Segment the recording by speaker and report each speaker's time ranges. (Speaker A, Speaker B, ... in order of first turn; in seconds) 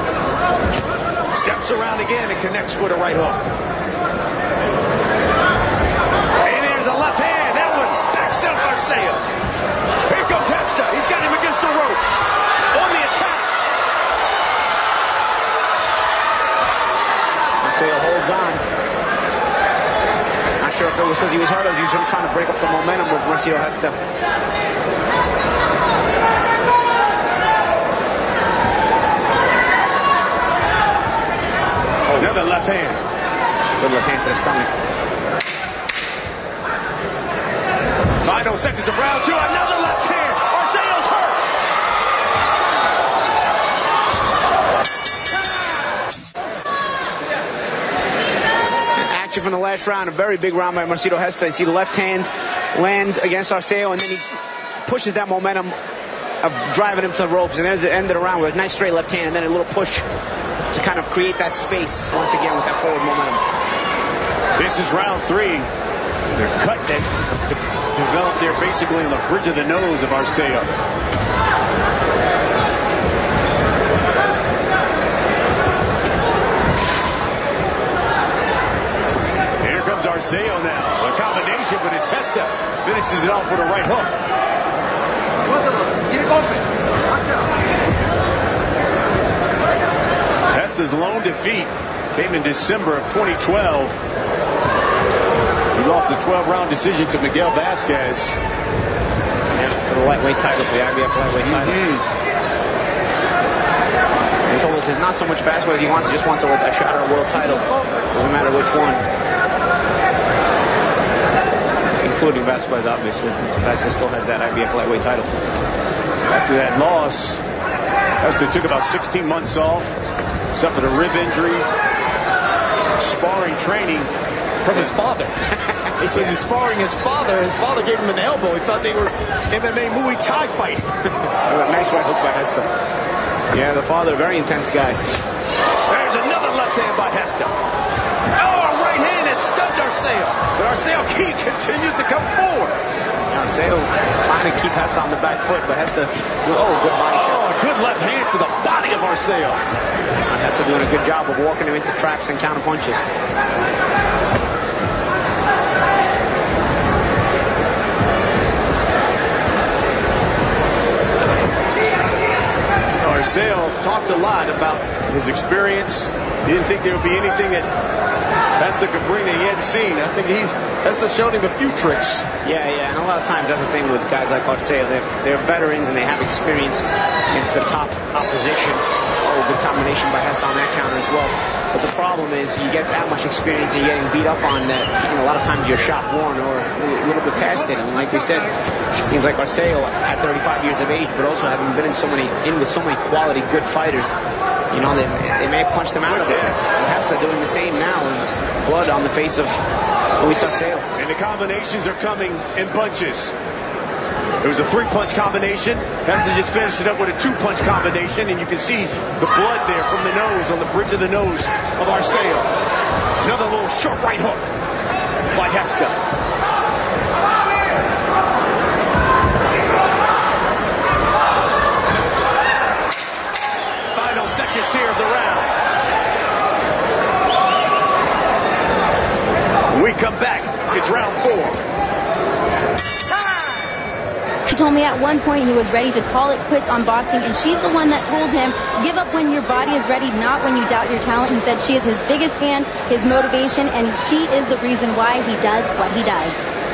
Speaker A: 1.3-3.4, 6.4-9.2, 10.1-13.5, 32.1-33.0, 38.2-41.5, 64.6-65.7, 66.3-70.7, 79.6-84.1, 90.5-94.0, 95.7-98.4, 101.5-102.0, 116.2-117.4, 118.2-120.0, 120.5-121.7, 123.0-124.1, 124.6-125.4, 126.1-130.9, 135.9-137.5, 138.4-142.8, 147.1-149.6, 163.0-167.7, 168.6-172.3, 196.1-196.6, 201.0-203.3, 204.4-212.5, 213.2-214.4, 215.3-216.0, 223.9-225.6, 229.7-231.6
Speaker B: 17.6-18.6, 20.6-24.0, 33.8-34.7, 49.0-54.2, 54.8-55.8, 56.4-60.0, 60.7-63.4, 99.5-101.9, 104.5-109.0, 112.0-115.3, 126.0-126.3, 131.4-132.7, 133.5-135.0, 143.3-147.5, 150.3-153.0, 172.4-194.1, 194.7-199.6, 200.2-200.9
Speaker C: 234.5-246.4